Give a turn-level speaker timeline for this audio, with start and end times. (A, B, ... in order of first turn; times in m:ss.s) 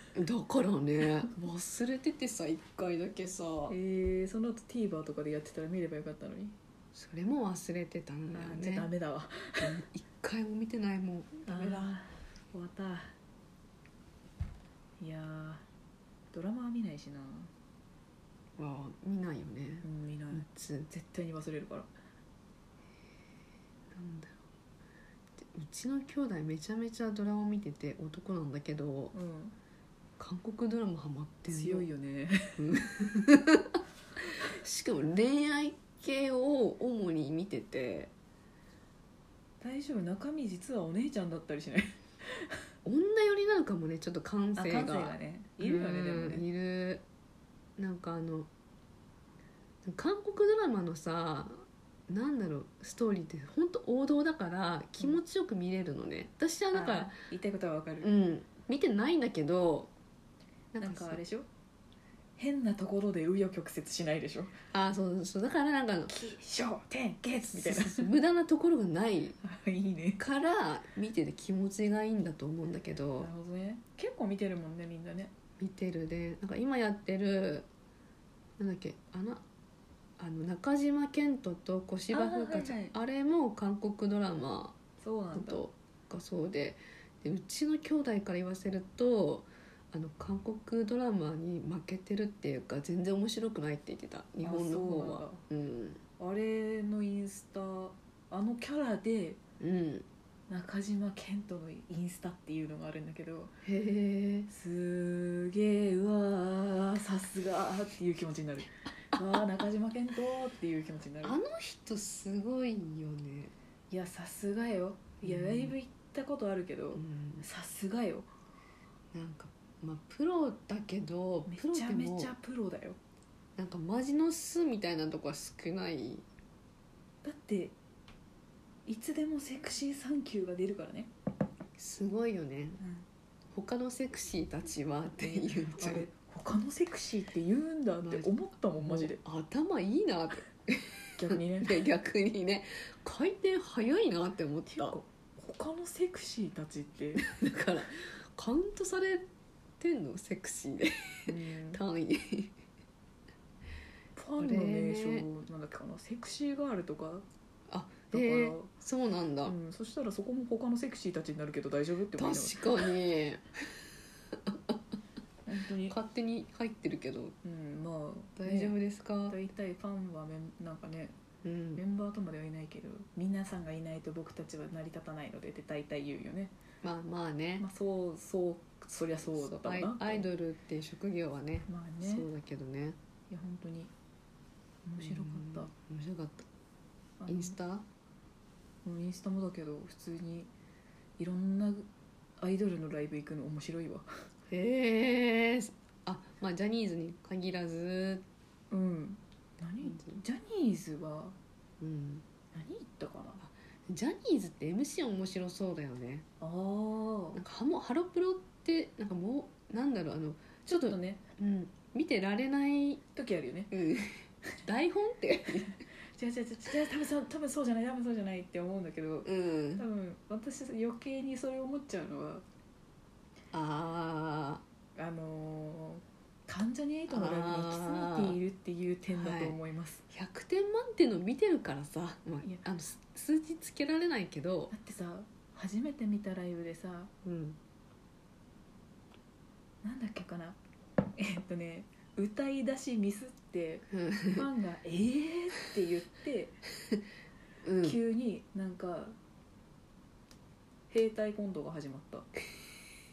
0:00.2-0:03.8 A
0:03.7-0:06.6 B
0:07.0-0:08.9 A
0:08.3-0:09.7 B
0:09.6-0:11.9 A
0:11.5-0:13.1 B
0:15.0-0:15.6 B
0:16.3-0:17.5 B
0:18.6-0:20.9 A
0:19.8-0:21.9 B
0:23.9-0:24.4 A
0:25.4-0:29.1 A
0:29.1-0:29.6 B
0:30.2-0:31.9 A
0:31.5-0:32.6 B
0:32.6-0:33.8 A
0:34.4-0:38.1 A
0:39.6-0:42.5 B
0:42.8-0:47.0 A
0:44.6-0:46.5 B
0:47.8-0:48.5 A
0:49.8-0:57.2 A
0:56.7-0:58.1 B
0:58.0-0:59.9 A
1:00.7-1:01.2 A
1:00.8-1:01.5 B
1:02.4-1:04.6 B
1:04.7-1:06.2 A
1:06.1-1:08.1 B
1:07.5-1:09.4 A
1:09.4-1:10.2 B
1:10.2-1:13.3 A
1:13.2-1:15.3 B
1:15.6-1:17.7 A
1:18.6-1:19.4 A
1:20.2-1:24.8 A
1:22.1-1:23.0 B
1:25.0-1:25.7 B
1:25.3-1:36.0 A
1:34.4-1:35.4 B
1:36.2-1:39.4 B
1:39.6-1:40.1 A
1:40.5-1:43.5 B
1:43.6-1:44.5 A
1:44.5-1:51.4 B
1:51.2-1:53.5 A
1:53.9-1:58.3 B
1:55.2-1:55.8 A
1:57.0-1:57.4 A
1:59.1-2:02.3 A
2:01.5-2:03.0 B
2:03.6-2:06.2 A
2:07.2-2:07.8 B
2:08.9-2:11.1 B
2:11.8-2:12.8 A
2:12.8-2:13.1 B
2:13.5-2:16.1 A
2:15.2-2:19.2 B
2:18.0-2:25.0 A
2:21.2-2:21.8 B
2:24.7-2:27.2 B
2:27.2-2:29.2 A
2:29.8-2:32.6 A
2:31.3-2:31.8 B
2:34.2-2:37.2 B
2:34.4-2:35.3 A
2:37.7-2:39.6 A
2:38.1-2:38.7 B
2:39.4-2:42.9 B
2:42.2-2:44.8 A
2:45.5-2:46.0 B
2:45.9-2:47.4 A
2:47.4-2:48.8 B
2:48.4-2:49.4 A
2:49.3-2:51.2 B
2:51.4-2:51.8 A
2:51.8-2:56.5 B
2:56.8-2:57.7 A
2:57.6-3:00.3 B
2:59.2-3:03.0 A
3:01.7-3:02.3 B
3:03.3-3:03.9 B
3:04.8-3:05.7 B
3:05.0-3:06.5 A
3:07.2-3:07.6 B
3:07.3-3:07.8 A
3:08.8-3:10.5 B
3:11.2-3:11.9 B
3:12.4-3:14.1 B
3:14.5-3:18.2 A
3:18.7-3:21.4 B
3:19.8-3:20.2 A
3:21.8-3:22.2 A
3:22.5-3:23.4 B
3:23.4-3:26.2 A
3:26.4-3:27.4 B
3:27.3-3:33.0 A
3:30.7-3:31.3 B
3:33.2-3:33.7 B
3:33.7-3:35.8 A
3:36.2-3:42.4 B
3:39.2-3:39.8 A
3:43.5-3:44.6 A
3:45.0-3:50.0 B
3:47.1-3:48.4 A
3:49.1-3:49.6 A
3:50.1-3:54.7 A
3:54.7-3:57.1 B
3:57.2-3:57.6 A
3:59.8-4:00.6 B
4:01.2-4:06.6 B
4:03.9-4:04.5 A
4:07.6-4:08.0 A
4:07.8-4:09.2 B
4:10.9-4:12.3 B